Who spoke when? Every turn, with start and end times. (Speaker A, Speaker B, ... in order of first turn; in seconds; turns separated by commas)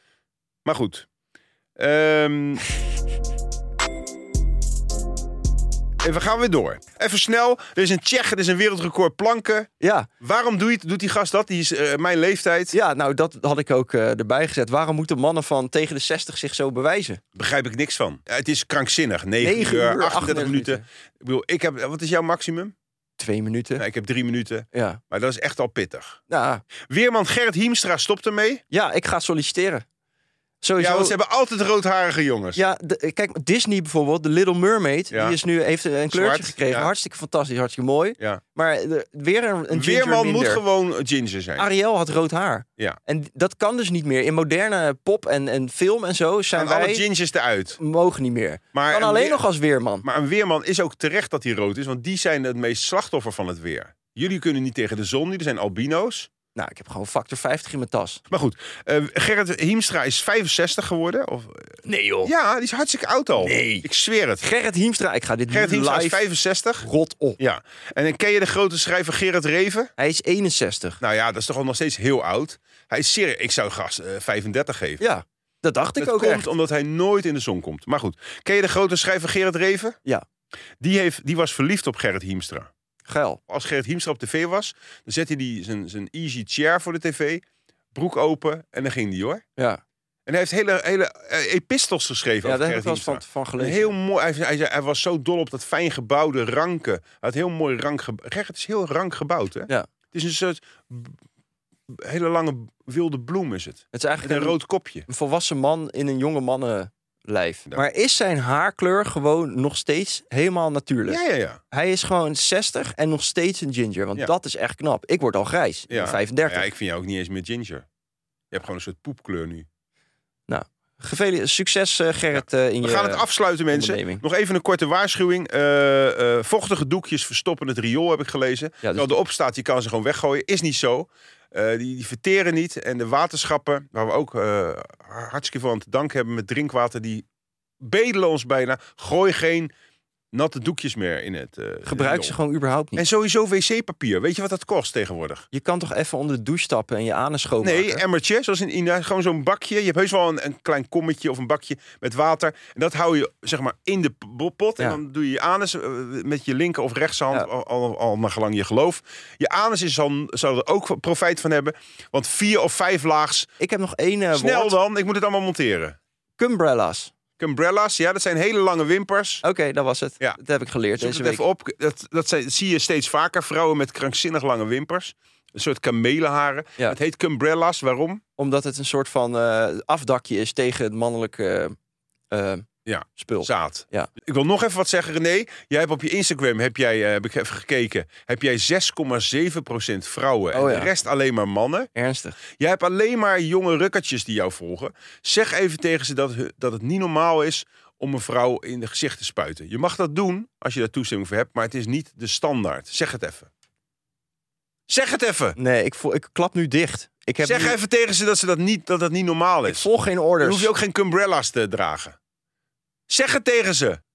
Speaker A: 0.6-1.1, Speaker A: 1.8-2.6, Speaker A: 6.0-9.7, Speaker B: 9.8-10.1, Speaker A: 10.2-12.8, Speaker B: 12.7-17.2, Speaker A: 17.4-22.7, Speaker B: 19.4-20.8, Speaker B: 23.2-23.8, Speaker A: 23.8-26.2, Speaker B: 24.7-25.0, Speaker B: 26.3-26.6, Speaker A: 26.9-28.6, Speaker B: 28.7-29.9, Speaker B: 30.6-31.2, Speaker A: 30.8-32.6, Speaker B: 32.5-40.6, Speaker A: 35.1-35.4, Speaker A: 36.1-36.9, Speaker A: 39.7-41.7, Speaker B: 41.6-47.0, Speaker A: 46.5-47.8, Speaker B: 47.8-50.0, Speaker A: 48.7-49.4, Speaker A: 50.0-56.3, Speaker B: 56.6-58.2, Speaker A: 58.3-64.4, Speaker B: 61.9-62.3, Speaker B: 63.4-63.9, Speaker B: 64.4-66.2, Speaker A: 65.5-66.8, Speaker B: 66.8-67.4, Speaker A: 67.4-69.9, Speaker B: 70.0-71.0, Speaker A: 71.0-75.0, Speaker B: 75.0-76.5, Speaker A: 76.0-80.0, Speaker A: 80.8-82.7, Speaker B: 83.1-83.4, Speaker A: 83.5-89.4, Speaker A: 90.3-101.2, Speaker B: 92.4-93.9, Speaker A: 101.9-105.1, Speaker B: 103.9-116.6, Speaker A: 111.1-111.6, Speaker A: 115.9-117.9, Speaker A: 118.5-119.7, Speaker B: 120.5-124.2, Speaker A: 122.4-137.2, Speaker B: 128.8-129.1, Speaker A: 137.8-139.7, Speaker A: 140.3-142.3, Speaker B: 141.9-143.0, Speaker A: 143.0-145.5, Speaker B: 145.5-148.0, Speaker A: 147.6-163.5, Speaker B: 163.6-164.8, Speaker A: 164.3-166.0, Speaker B: 166.4-167.1, Speaker A: 167.4-169.4, Speaker B: 169.4-171.4, Speaker A: 171.0-178.2, Speaker B: 178.4-181.8, Speaker B: 182.3-184.1, Speaker A: 182.9-191.9, Speaker B: 190.5-190.9, Speaker B: 191.9-192.4, Speaker A: 192.6-203.5, Speaker A: 204.9-205.6, Speaker B: 205.6-207.8, Speaker A: 207.4-209.9, Speaker B: 209.7-210.7, Speaker A: 210.4-212.2, Speaker A: 213.1-214.0